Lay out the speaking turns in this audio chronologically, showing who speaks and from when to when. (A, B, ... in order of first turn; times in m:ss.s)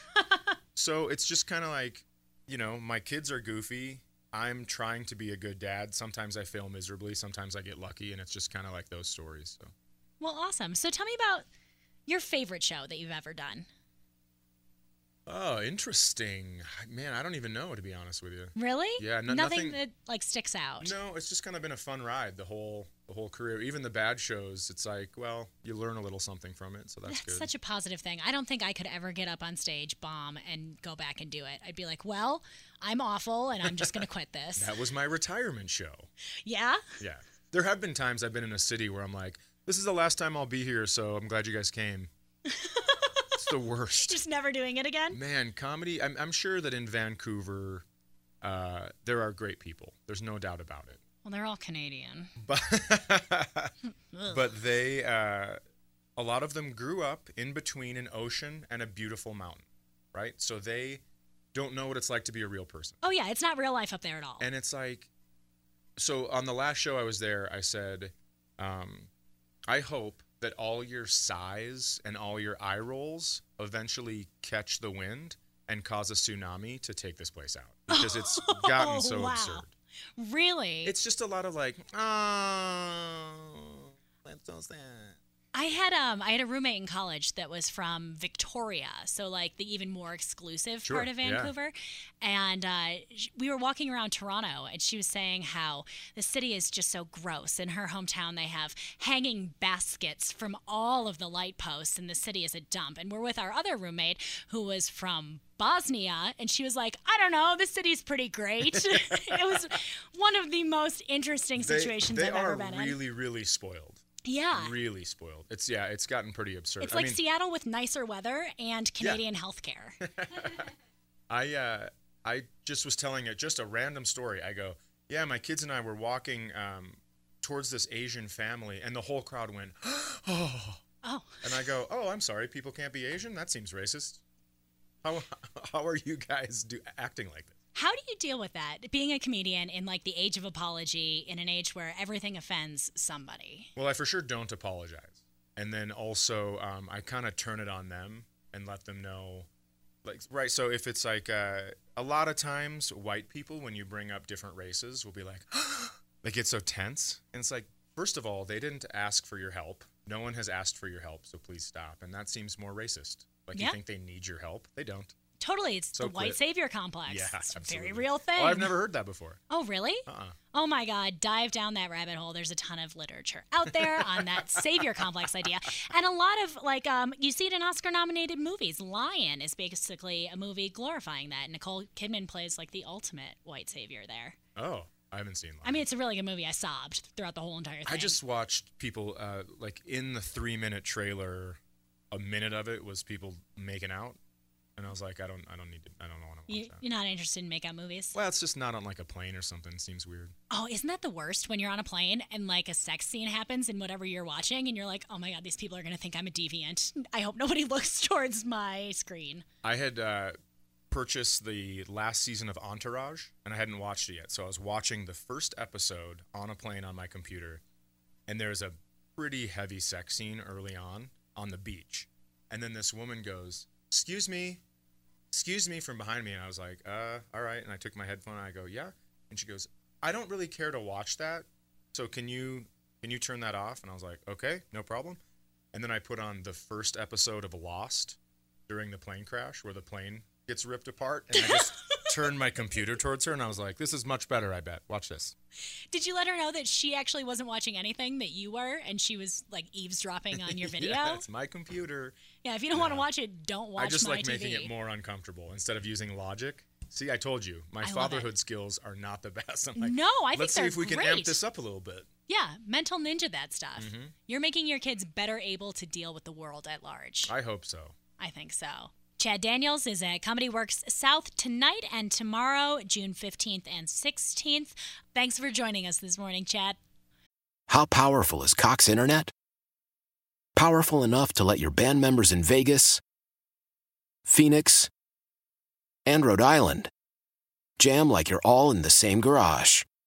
0:00.7-0:09.7 A
0:10.2-0:11.4 B
0:12.1-0:13.6 B
0:15.2-0:19.8 A
0:18.5-0:20.9 B
0:20.8-0:27.5 A
0:27.0-0:34.7 B
0:33.6-0:33.9 A
0:34.6-0:36.1 A
0:36.4-0:36.8 B
0:37.0-0:42.1 A
0:42.4-0:43.4 B
0:43.4-0:44.2 A
0:43.9-0:45.2 B
0:45.1-0:47.8 A
0:48.4-0:51.0 A
0:51.2-0:52.3 B
0:52.4-0:53.7 A
0:54.1-0:54.4 B
0:54.2-0:55.6 A
0:56.2-1:01.0 A
1:01.5-1:03.0 A
1:03.0-1:04.5 B
1:04.4-1:05.1 A
1:06.0-1:09.1 A
1:09.7-1:19.7 A
1:17.9-1:19.6 B
1:20.2-1:20.9 B
1:20.8-1:25.2 A
1:25.5-1:53.0 B
1:30.8-1:31.5 A
1:48.7-1:49.7 A
1:51.6-1:57.2 A
1:54.2-1:54.8 B
1:56.8-2:00.0 B
2:00.0-2:00.7 A
2:01.3-2:10.8 A
2:11.0-2:11.4 B
2:11.4-2:14.2 A
2:15.0-2:17.5 A
2:17.7-2:23.7 B
2:23.8-2:29.5 A
2:30.0-2:45.1 A
2:45.4-2:48.8 B
2:45.9-2:46.4 A
2:47.1-2:49.4 A
2:49.5-3:04.4 B
2:50.1-2:50.4 A
3:04.6-3:05.8 A
3:05.6-3:08.2 B
3:07.8-3:11.6 A
3:12.1-3:14.2 A
3:14.8-3:16.8 A
3:16.5-3:18.2 B
3:18.1-3:20.3 A
3:20.5-3:29.4 B
3:29.6-3:30.4 A
3:30.9-3:37.6 A
3:38.3-3:44.6 A
3:45.3-3:55.2 A
3:55.7-4:05.3 A
4:01.3-4:02.1 B
4:05.9-4:11.2 B
4:10.3-4:12.2 A
4:12.4-4:14.7 B
4:12.7-4:13.0 A
4:13.8-4:22.1 A
4:17.8-4:18.3 B
4:19.8-4:21.4 B
4:22.3-4:27.3 B
4:23.8-4:24.1 A
4:27.3-4:28.0 A
4:28.2-4:36.8 B
4:37.7-4:39.3 C
4:40.5-4:43.0 C
4:44.2-4:44.9 C
4:46.0-4:46.9 C
4:47.8-4:49.9 C